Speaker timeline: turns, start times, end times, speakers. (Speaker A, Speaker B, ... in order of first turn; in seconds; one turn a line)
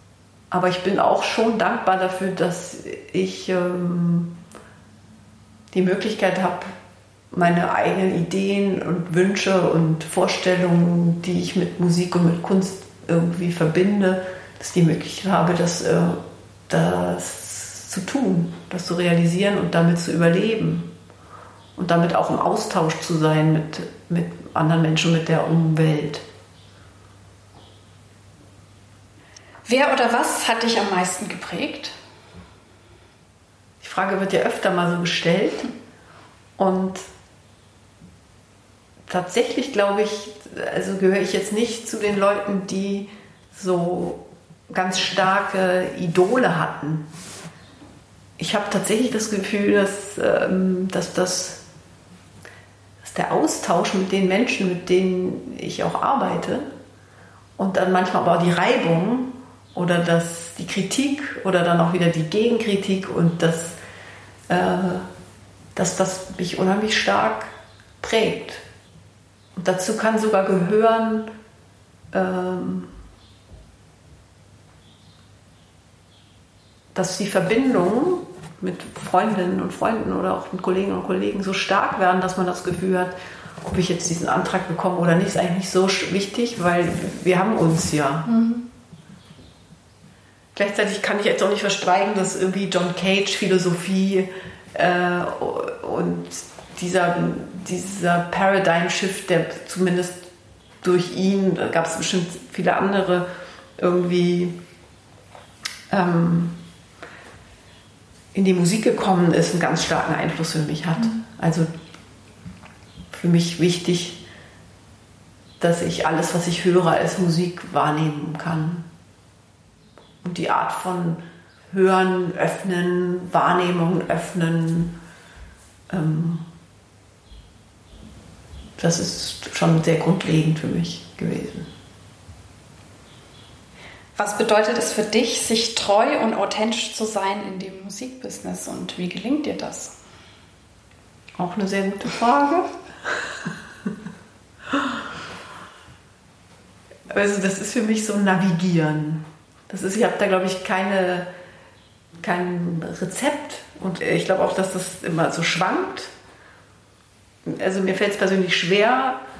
Speaker A: 0.5-4.3
Speaker A: 5.7-6.7
Speaker A: 7.3-20.9
Speaker A: 21.8-26.2
Speaker B: 29.6-31.9
Speaker A: 33.8-35.7
Speaker A: 36.6-37.1
Speaker A: 39.1-47.1
Speaker A: 48.4-51.6
Speaker A: 53.0-56.7
Speaker A: 57.6-63.8
Speaker A: 64.5-65.1
Speaker A: 65.8-68.6
Speaker A: 69.5-71.3
Speaker A: 72.1-72.9
Speaker A: 76.9-88.3
Speaker B: 88.2-88.7
Speaker A: 90.5-100.3
Speaker A: 100.8-103.3
Speaker A: 103.8-104.6
Speaker A: 105.9-106.6
Speaker A: 108.3-111.7
Speaker A: 113.1-114.2
Speaker A: 115.6-118.8
Speaker A: 120.2-125.0
Speaker A: 125.9-126.5
Speaker A: 128.8-131.7
Speaker B: 134.2-139.9
Speaker A: 141.4-143.5
Speaker A: 147.1-151.3
Speaker A: 152.2-156.1
Speaker A: 157.4-159.2